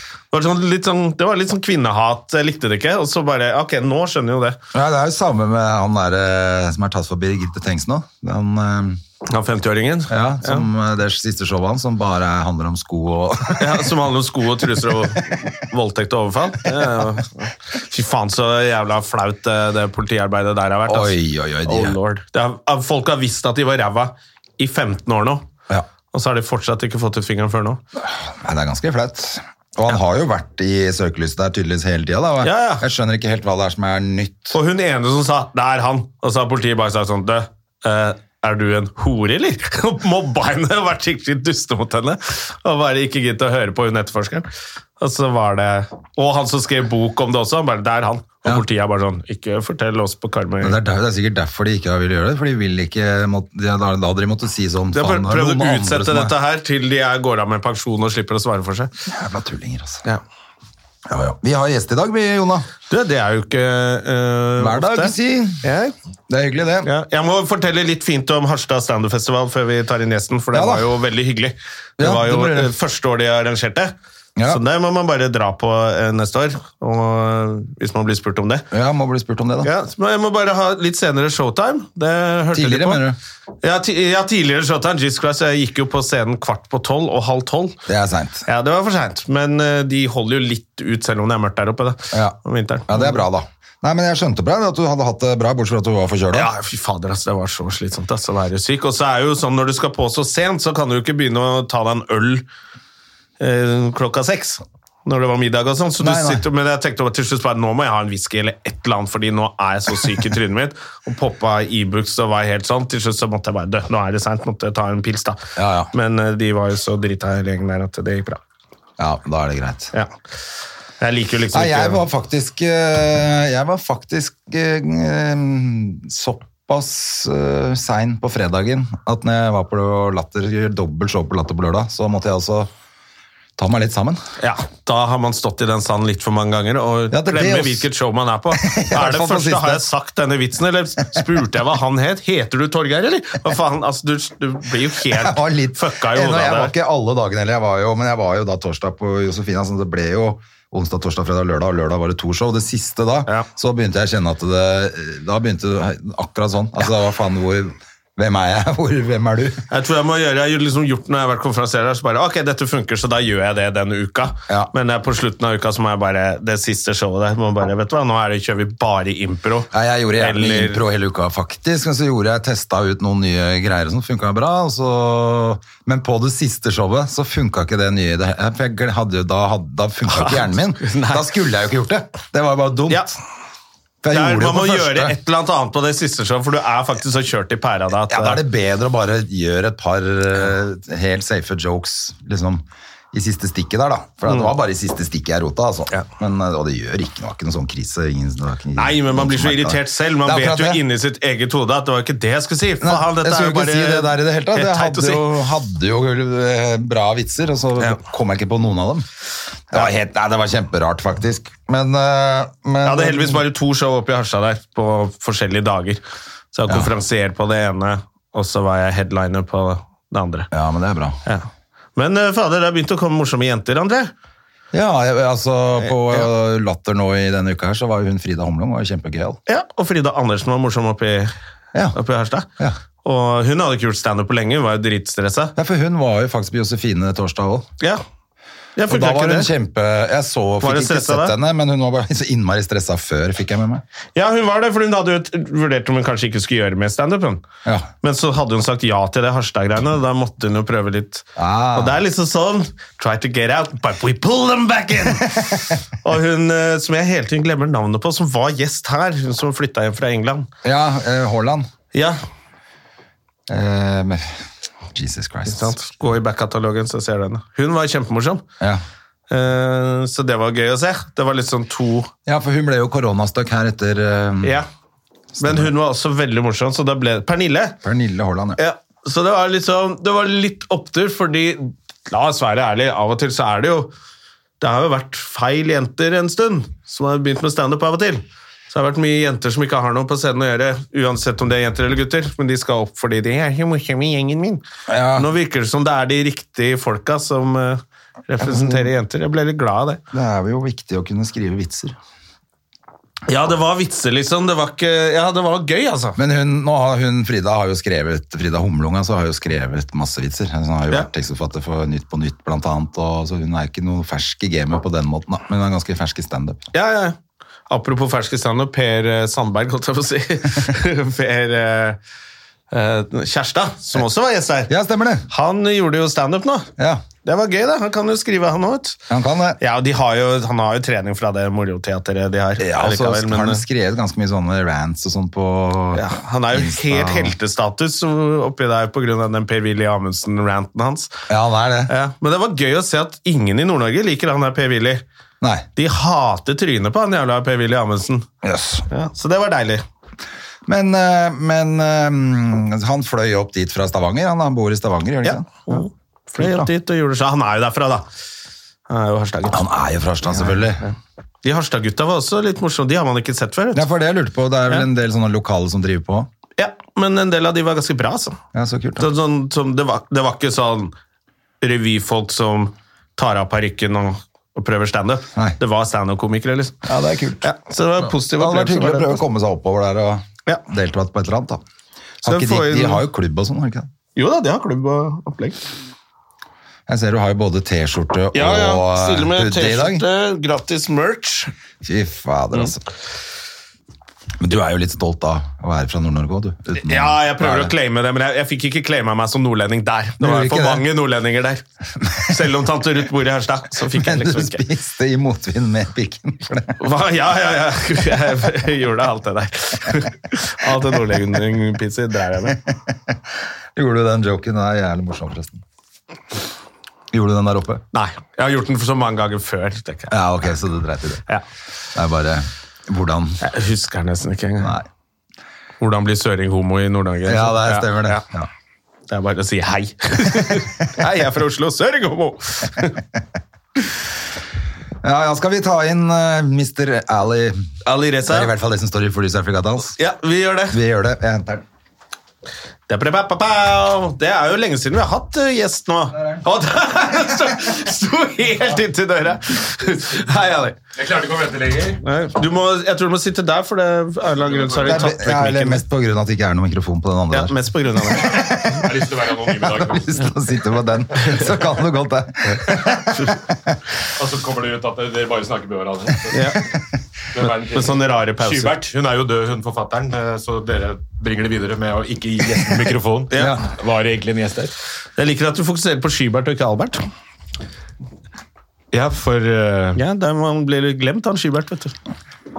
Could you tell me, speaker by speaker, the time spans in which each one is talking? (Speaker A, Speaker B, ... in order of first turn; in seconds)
Speaker A: 0.3-4.6, 9.2-10.7, 13.6-25.4, 26.1-27.8, 32.4-32.8, 34.5-50.8, 54.9-58.9, 62.9-65.9, 66.8-73.9, 74.5-78.7, 79.6-83.0, 83.6-87.8, 88.5-93.2, 96.3-102.4, 103.4-118.4, 121.0-122.0, 134.4-146.7, 159.7-170.8, 180.1-181.3, 184.1-188.4, 194.3-194.5, 198.8-205.3, 212.8-216.0, 216.5-220.5, 221.2-224.1, 229.5-231.3, 231.9-232.5, 233.0-235.5, 238.8-239.5, 240.6-241.3, 244.2-247.4, 248.0-260.5, 265.5-268.4, 269.3-272.1, 274.4-274.7, 275.4-277.8, 278.6-283.9, 284.6-294.6, 295.1-300.0, 303.3-306.2, 316.7-317.2, 317.7-322.0, 322.7-324.7, 325.3-326.7, 327.2-329.0, 329.6-333.6, 335.9-341.1, 341.9-345.0, 345.8-348.3, 348.9-349.8, 355.2-358.1, 358.9-359.6, 360.3-360.9, 361.4-363.9, 366.6-368.4, 369.0-370.9, 371.6-376.8, 377.4-379.2, 382.2-383.0, 384.1-385.7, 388.3-391.5, 396.7-401.6, 402.2-404.6, 406.8-412.6, 417.9-420.2, 423.4-424.8, 425.8-428.2, 429.1-433.0, 437.8-438.5, 439.9-440.8, 442.9-450.8, 452.0-455.8, 457.3-458.4, 466.3-466.6, 467.4-468.8, 473.3-473.6, 475.2-477.1, 479.9-481.9
Speaker B: 4.7-9.0, 10.1-13.9, 20.9-22.0, 28.0-34.5, 50.6-56.3, 59.1-60.0, 61.0-62.7, 64.6-65.6, 66.3-66.9, 70.5-70.9, 72.0-72.7, 78.7-79.7, 82.5-83.2, 87.9-88.5, 92.1-92.4, 92.9-96.5, 106.0-106.4, 115.5-115.9, 119.0-119.9, 121.5-132.7, 133.6-134.2, 137.1-137.9, 138.5-139.8, 145.0-159.6, 169.7-183.2, 184.0-185.2, 188.1-200.8, 202.8-209.1, 209.7-213.4, 220.5-221.2, 224.7-229.4, 235.6-237.7, 238.9-243.8, 251.3-252.0, 260.6-261.7, 263.5-264.2, 264.9-265.8, 272.2-274.6, 275.3-275.7, 277.8-278.6, 294.9-295.3, 298.4-298.9, 300.1-301.9, 306.2-316.6, 324.7-325.2, 326.8-327.0, 329.1-329.6, 332.6-337.3, 341.3-341.9, 345.4-345.6, 348.4-348.9, 350.6-355.8, 356.4-356.7, 359.5-360.8, 363.7-366.3, 368.5-369.1, 376.8-377.5, 378.0-381.6, 382.2-383.9, 386.9-390.0, 391.8-392.8, 394.4-397.7, 400.2-400.9, 402.0-402.3, 403.9-406.8, 412.6-413.1, 413.7-415.6, 417.1-417.8, 420.1-421.2, 421.9-423.4, 424.6-424.9, 427.2-428.5, 435.0-437.7, 438.2-439.9, 440.7-441.6, 454.8-457.5, 458.2-458.9, 459.5-463.8, 473.4-473.7
Speaker C: 450.9-452.0, 454.4-455.1, 458.2-460.3, 464.0-466.7, 467.3-474.7, 478.9-480.0